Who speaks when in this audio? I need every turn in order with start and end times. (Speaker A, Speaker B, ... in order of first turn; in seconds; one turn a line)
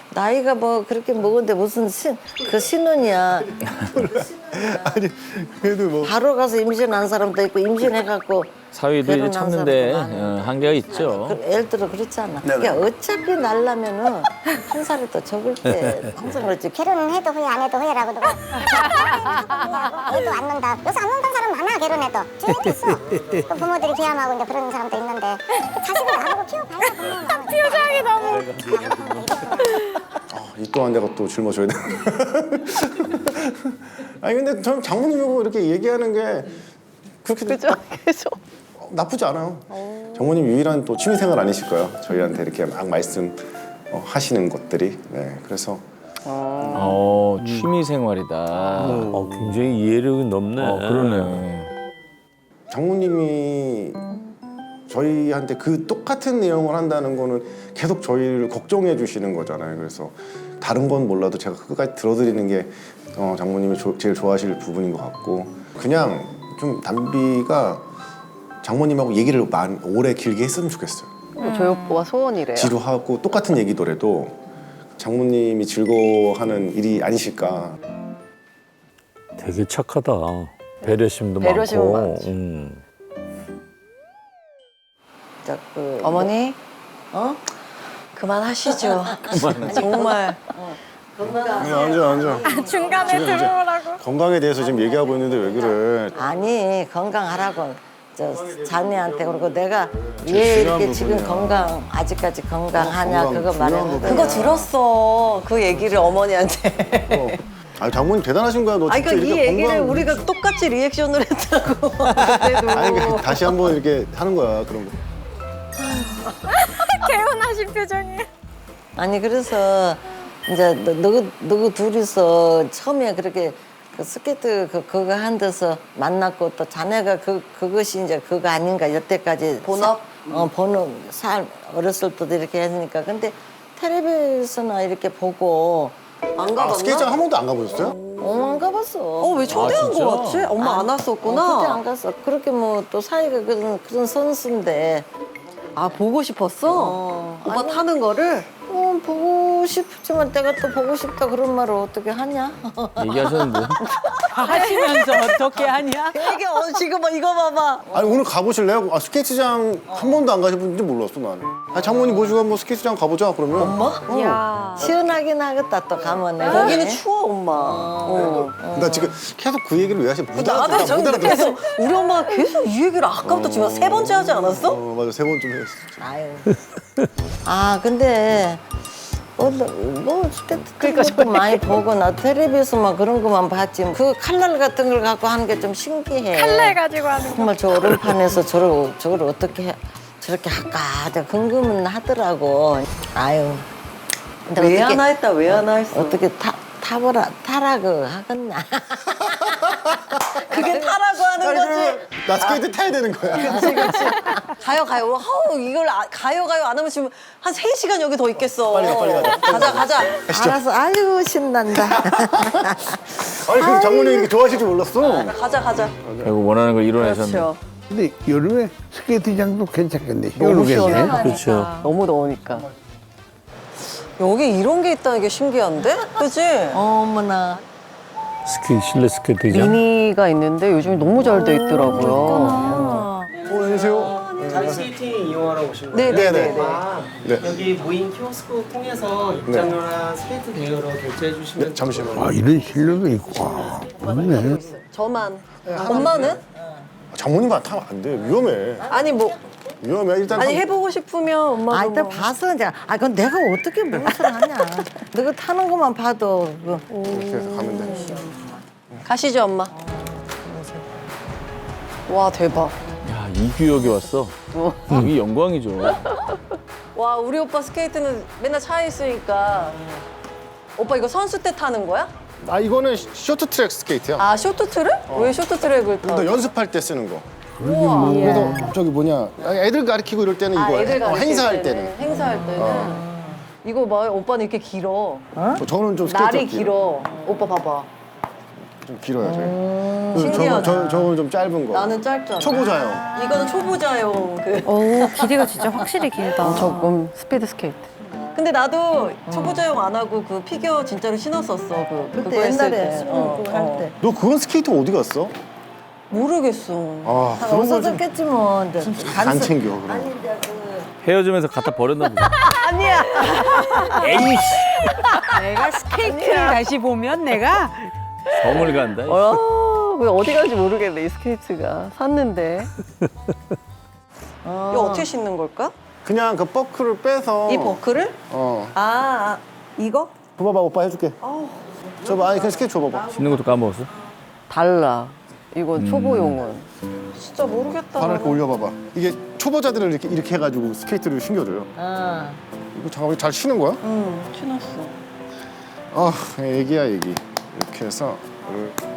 Speaker A: 0.1-5.0
Speaker B: 3.7-6.2
Speaker A: 6.0-16.9
Speaker C: 8.7-11.4
Speaker B: 12.4-12.8
Speaker D: 15.7-16.1
Speaker E: 16.3-29.9
Speaker D: 22.6-23.4
Speaker F: 27.5-28.3
Speaker C: 28.2-29.2
Speaker B: 30.3-36.6
Speaker B: 37.2-37.8
Speaker G: 37.5-38.4
Speaker B: 38.8-45.9
Speaker G: 46.3-47.0
Speaker C: 46.7-49.7
Speaker D: 48.8-51.4
Speaker C: 50.5-51.7
Speaker B: 52.7-54.0
Speaker B: 54.9-67.9
Speaker B: 68.6-71.1
Speaker G: 71.4-72.8
Speaker F: 71.4-72.1
Speaker B: 72.5-74.4
Speaker B: 75.0-77.8
Speaker D: 79.4-82.8
Speaker G: 81.4-82.3
Speaker A: 85.4-86.3
Speaker G: 86.0-86.6
Speaker A: 87.1-87.4
Speaker G: 88.2-90.4
Speaker A: 88.8-93.5
Speaker C: 89.3-89.9
Speaker B: 91.4-96.2
Speaker F: 92.4-94.0
Speaker A: 94.6-104.6
Speaker B: 98.6-99.5
Speaker B: 100.1-101.8
Speaker B: 102.7-104.7
Speaker G: 104.0-107.4
Speaker B: 107.1-110.2
Speaker G: 108.9-113.5
Speaker B: 112.7-115.0
Speaker F: 116.5-118.3
Speaker A: 119.0-136.0
Speaker G: 129.6-130.2
Speaker G: 136.4-138.6
Speaker B: 136.5-138.0
Speaker A: 138.2-139.9
Speaker G: 139.2-141.8
Speaker C: 139.5-140.5
Speaker A: 140.6-145.1
Speaker G: 145.8-148.5
Speaker A: 146.7-147.8
Speaker A: 148.7-158.3
Speaker C: 153.0-153.8
Speaker H: 154.3-156.4
Speaker G: 156.8-157.8
Speaker B: 157.9-164.4
Speaker A: 159.9-160.2
Speaker A: 161.8-162.3
Speaker A: 163.5-169.2
Speaker F: 164.1-164.9
Speaker F: 166.4-166.7
Speaker G: 166.4-168.6
Speaker B: 168.2-171.5
Speaker G: 170.3-174.8
Speaker F: 171.5-172.6
Speaker B: 173.2-176.1
Speaker A: 176.0-176.5
Speaker A: 177.4-178.7
Speaker A: 179.4-193.7
Speaker G: 180.8-181.6
Speaker F: 186.3-188.2
Speaker A: 194.5-201.0
Speaker G: 194.5-196.2
Speaker G: 200.4-202.6
Speaker B: 201.4-204.0
Speaker G: 203.3-210.3
Speaker A: 203.4-204.3
Speaker B: 208.6-210.6
Speaker A: 210.3-214.3
Speaker B: 213.3-215.3
Speaker G: 215.0-216.0
Speaker B: 216.0-216.3
Speaker C: 216.2-217.5
Speaker G: 217.0-217.6
Speaker I: 217.9-221.2
Speaker G: 220.4-221.1
Speaker A: 220.5-221.6
Speaker D: 221.0-221.8
Speaker G: 221.8-222.7
Speaker G: 224.2-226.8
Speaker A: 226.7-227.6
Speaker D: 228.5-229.8
Speaker G: 229.5-233.0
Speaker A: 231.3-233.1
Speaker F: 231.4-233.3
Speaker B: 233.5-235.0
Speaker J: 233.6-242.7
Speaker G: 235.9-236.9
Speaker B: 236.1-236.6
Speaker B: 237.2-237.6
Speaker B: 239.4-239.8
Speaker B: 241.6-242.4
Speaker I: 242.2-244.6
Speaker G: 243.5-246.4
Speaker J: 243.9-244.4
Speaker B: 245.7-246.2
Speaker B: 247.1-248.9
Speaker G: 248.9-249.4
Speaker B: 249.8-250.7
Speaker G: 250.3-252.3
Speaker A: 251.7-258.6
Speaker G: 254.1-254.4
Speaker B: 257.0-258.1
Speaker G: 257.8-258.1
Speaker G: 259.1-259.7
Speaker A: 259.7-260.9
Speaker G: 262.1-262.8
Speaker C: 263.1-264.4
Speaker G: 264.5-265.0
Speaker C: 264.9-266.0
Speaker G: 266.9-269.8
Speaker G: 270.8-272.1
Speaker B: 272.4-274.3
Speaker G: 274.2-276.5
Speaker B: 275.1-275.4
Speaker B: 276.0-277.3
Speaker I: 277.6-278.2
Speaker G: 277.6-278.6
Speaker H: 278.0-278.6
Speaker B: 278.1-281.9
Speaker G: 280.5-283.0
Speaker A: 282.1-283.5
Speaker B: 282.6-283.0
Speaker G: 283.6-285.2
Speaker A: 285.4-285.6
Speaker B: 285.6-286.7
Speaker G: 286.1-287.9
Speaker A: 287.1-287.4
Speaker B: 288.6-293.1
Speaker A: 289.2-290.9
Speaker G: 290.2-291.1
Speaker G: 291.7-295.5
Speaker F: 294.6-296.8
Speaker A: 295.6-296.9
Speaker G: 296.4-303.9
Speaker A: 299.3-299.6
Speaker A: 302.1-304.0
Speaker B: 304.0-305.4
Speaker G: 306.1-307.2
Speaker B: 307.1-308.0
Speaker A: 307.4-310.9
Speaker B: 308.8-310.1
Speaker C: 311.0-312.4
Speaker G: 312.4-314.3
Speaker H: 313.3-314.2
Speaker C: 314.0-314.8
Speaker H: 315.2-317.9
Speaker G: 315.9-316.6
Speaker G: 318.3-322.7
Speaker C: 318.3-319.4
Speaker A: 324.4-325.1
Speaker G: 324.7-325.7
Speaker B: 326.0-328.8
Speaker G: 327.5-328.2
Speaker G: 328.7-330.1
Speaker B: 330.4-331.2
Speaker G: 331.2-331.7
Speaker B: 332.0-333.2
Speaker C: 333.1-333.9
Speaker G: 334.5-338.4
Speaker C: 335.7-336.4
Speaker B: 337.9-341.7
Speaker A: 341.8-342.4
Speaker B: 342.7-343.8
Speaker G: 343.8-345.0
Speaker B: 345.9-348.8